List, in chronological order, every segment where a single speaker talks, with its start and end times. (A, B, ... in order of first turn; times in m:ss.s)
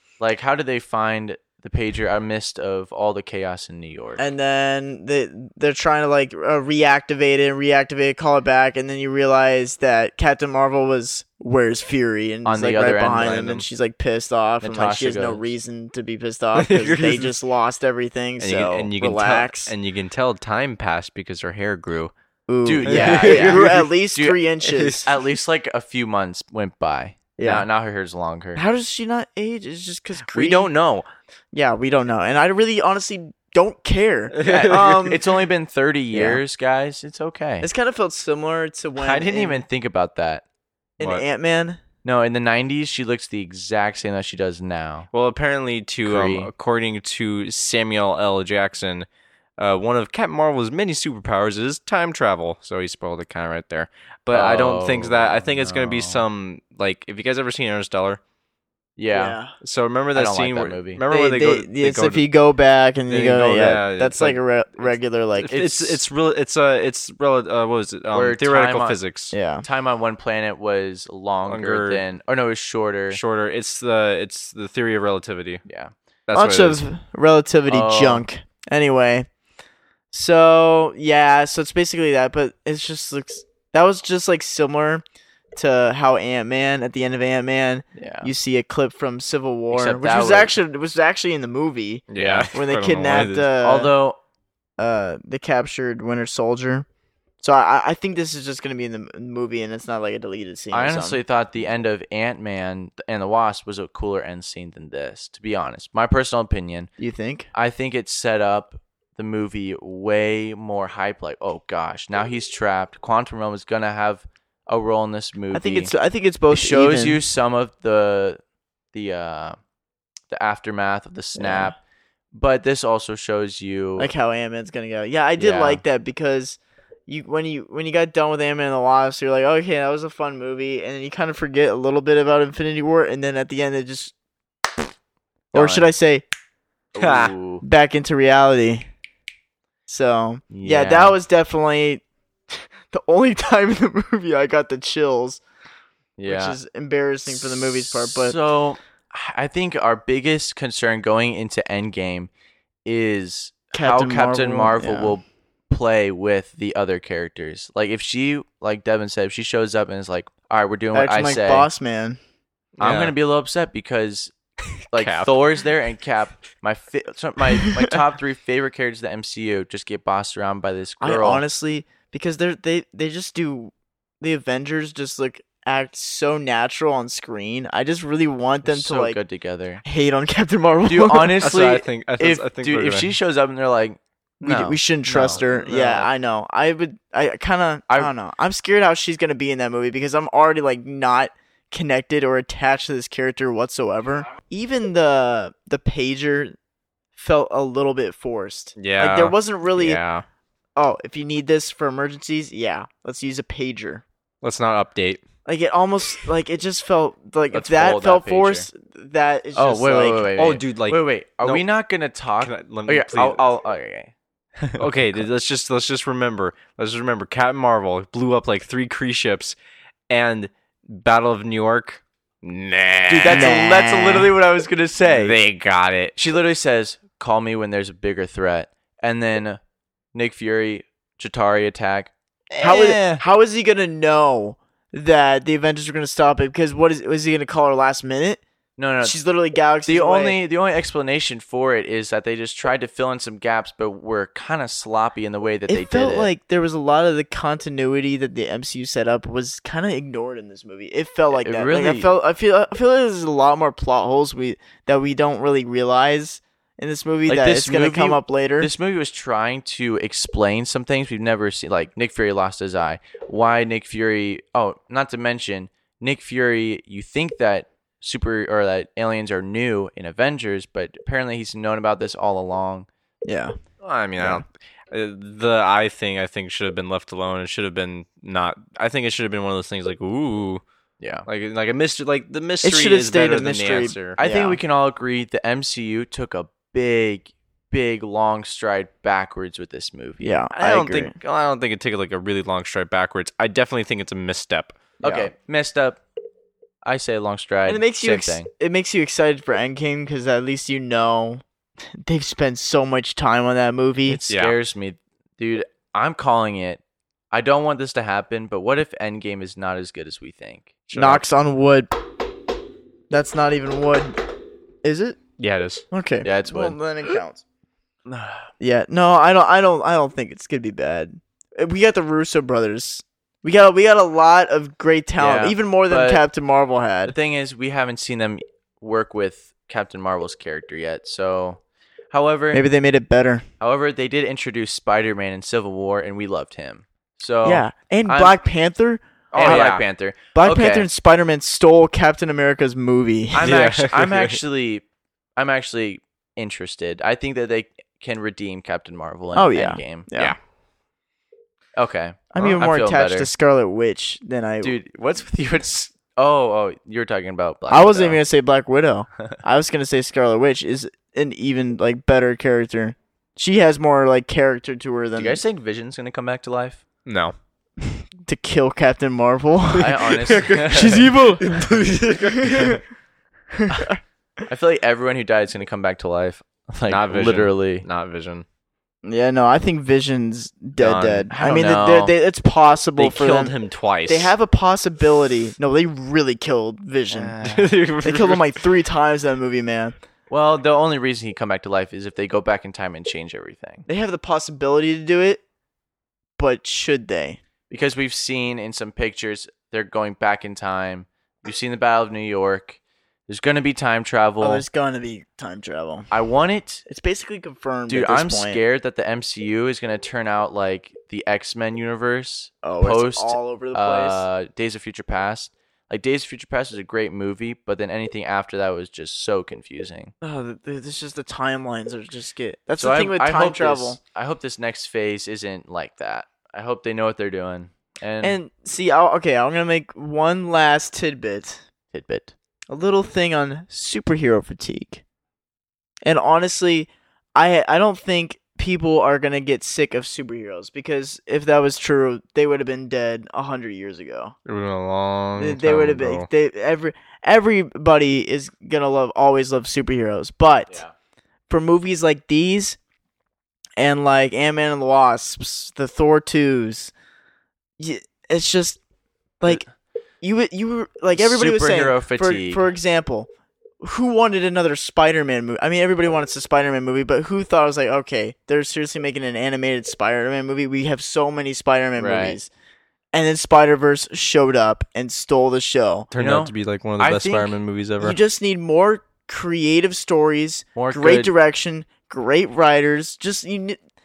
0:00.2-0:04.2 A
0:04.2-0:19.7 B
0:12.4-0:13.6 A
0:13.3-0:13.6 C
0:14.6-0:15.4 A
0:16.6-0:17.3 C
0:18.4-0:22.1 C
0:22.5-0:25.1 B
0:22.6-0:28.6 A
0:22.8-0:23.8 C
0:24.6-0:25.0 C
0:27.4-0:27.7 B
0:28.5-0:30.7 B
0:30.3-0:31.0 C
0:30.4-0:31.0 A
0:31.5-0:35.2 B
0:34.3-0:35.0 C
0:34.4-0:37.7 A
0:36.1-0:36.4 B
0:37.6-0:39.6 B
0:39.0-0:40.4 A
0:41.0-0:41.8 B
0:42.0-0:45.1 A
0:45.1-0:49.1 C
0:46.0-0:46.5 A
0:49.6-0:58.2 C
0:54.3-0:56.2 A
0:59.0-0:59.4 A
0:59.1-0:59.5 B
0:59.6-1:02.2 C
1:00.1-1:01.0 A
1:01.1-1:06.0 B
1:03.1-1:09.3 C
1:08.1-1:09.0 A
1:09.3-1:09.6 B
1:09.6-1:13.2 A
1:11.4-1:12.0 C
1:13.1-1:15.6 C
1:15.6-1:15.9 A
1:16.3-1:16.8 C
1:16.3-1:19.3 B
1:17.7-1:18.2 A
1:20.1-1:25.0 B
1:25.6-1:33.9 B
1:27.9-1:28.3 A
1:29.7-1:30.5 A
1:32.1-1:33.3 C
1:32.2-1:32.5 A
1:33.1-1:34.2 A
1:34.8-1:36.8 B
1:37.4-1:41.2 B
1:40.7-1:46.9 A
1:47.0-1:47.5 B
1:47.5-1:55.9 A
1:55.5-1:57.2 B
1:56.5-1:58.4 A
1:58.9-1:59.6 A
2:00.3-2:01.8 A
2:01.3-2:01.8 B
2:02.3-2:04.1 A
2:04.0-2:14.1 B
2:05.4-2:05.8 A
2:15.5-2:15.9 A
2:15.5-2:16.2 B
2:16.9-2:17.6 A
2:17.0-2:17.3 C
2:17.6-2:18.9 B
2:19.9-2:22.0 B
2:20.5-2:21.2 A
2:22.5-2:25.4 B
2:26.2-2:26.6 A
2:26.2-2:28.4 B
2:27.3-2:32.3 A
2:32.8-2:41.7 A
2:33.7-2:35.2 B
2:40.9-2:42.2 B
2:42.8-2:43.1 C
2:42.8-2:44.3 A
2:44.9-2:51.4 A
2:44.9-2:45.4 C
2:51.0-2:59.2 B
2:58.6-2:59.8 A
2:59.8-3:01.5 B
3:00.8-3:06.1 A
3:01.4-3:03.1 C
3:04.4-3:16.6 B
3:17.2-3:20.0 B
3:18.8-3:20.2 C
3:20.8-3:24.0 B
3:24.4-3:25.2 C
3:25.4-3:30.3 B
3:27.5-3:28.7 A
3:29.5-3:35.2 A
3:30.4-3:31.6 C
3:32.4-3:33.5 C
3:34.8-3:39.6 C
3:40.1-3:43.6 C
3:43.1-3:45.4 A
3:43.2-3:44.3 B
3:45.0-3:46.2 C
3:46.2-3:49.6 A
3:50.1-3:53.2 A
3:52.6-3:58.4 B
3:58.8-3:59.2 A
3:59.0-4:00.4 B
3:59.9-4:06.3 A
4:05.7-4:18.7 B
4:11.3-4:12.1 A
4:17.3-4:32.9 A
4:33.2-4:33.5 B
4:33.8-4:40.6 C
4:41.0-4:41.3 A
4:41.2-4:44.2 C
4:42.6-4:44.6 B
4:44.1-4:50.3 A
4:50.2-4:51.1 B
4:50.6-4:54.8 C
4:55.0-4:55.3 B
4:55.0-4:56.0 A
4:56.8-4:58.5 A
4:57.6-5:01.4 B
5:01.9-5:04.2 B
5:04.0-5:06.8 A
5:04.3-5:04.6 C
5:07.3-5:10.8 A
5:10.9-5:11.2 C
5:10.9-5:11.9 B
5:13.1-5:14.2 B
5:14.8-5:15.2 B
5:15.4-5:15.8 C
5:15.9-5:17.4 B
5:16.2-5:16.8 A
5:18.1-5:18.5 A
5:18.6-5:27.1 B
5:25.2-5:26.2 A
5:27.0-5:32.6 A
5:32.5-5:33.4 B
5:33.6-5:38.4 A
5:37.4-5:43.6 B
5:39.3-5:39.8 C
5:39.3-5:40.9 A
5:43.3-5:44.8 A
5:43.4-5:44.4 C
5:45.4-5:50.1 A
5:49.3-5:50.3 B
5:51.8-5:53.3 A
5:52.3-5:54.8 B
5:54.6-5:58.2 A
5:57.7-6:05.4 B
6:05.2-6:06.8 A
6:07.0-6:07.3 C
6:07.9-6:09.9 B
6:09.8-6:11.0 A
6:10.1-6:12.8 C
6:10.7-6:11.6 B
6:12.4-6:12.8 B
6:13.5-6:14.0 B
6:14.5-6:17.8 A
6:16.9-6:18.4 C
6:19.0-6:23.5 B
6:20.8-6:21.3 C
6:21.3-6:22.1 A
6:23.0-6:24.3 C
6:24.0-6:27.3 B
6:27.1-6:27.7 A
6:27.4-6:28.4 C
6:28.0-6:29.9 B
6:30.3-6:33.8 A
6:33.8-6:35.4 B
6:36.4-6:37.4 B
6:37.7-6:44.6 A
6:44.4-6:46.1 B
6:46.1-6:46.8 A
6:46.9-6:48.6 B
6:47.9-7:00.1 A
6:52.6-6:54.2 B
7:00.2-7:04.0 B
7:02.8-7:08.4 A
7:08.2-7:11.6 B
7:11.9-7:12.3 A
7:12.7-7:15.0 B
7:16.0-7:24.4 B
7:24.4-7:26.3 C
7:25.4-7:30.8 B
7:30.7-7:30.9 A
7:31.5-7:32.8 B
7:33.8-7:36.9 B
7:37.8-7:38.8 B
7:39.4-7:39.7 B
7:40.2-7:43.3 B
7:41.1-7:42.7 A
7:43.8-7:52.5 B
7:52.0-7:52.4 A
7:53.1-7:56.1 B
7:56.1-7:58.2 C
7:56.1-7:57.6 A
7:58.0-8:03.8 B
8:00.7-8:01.3 A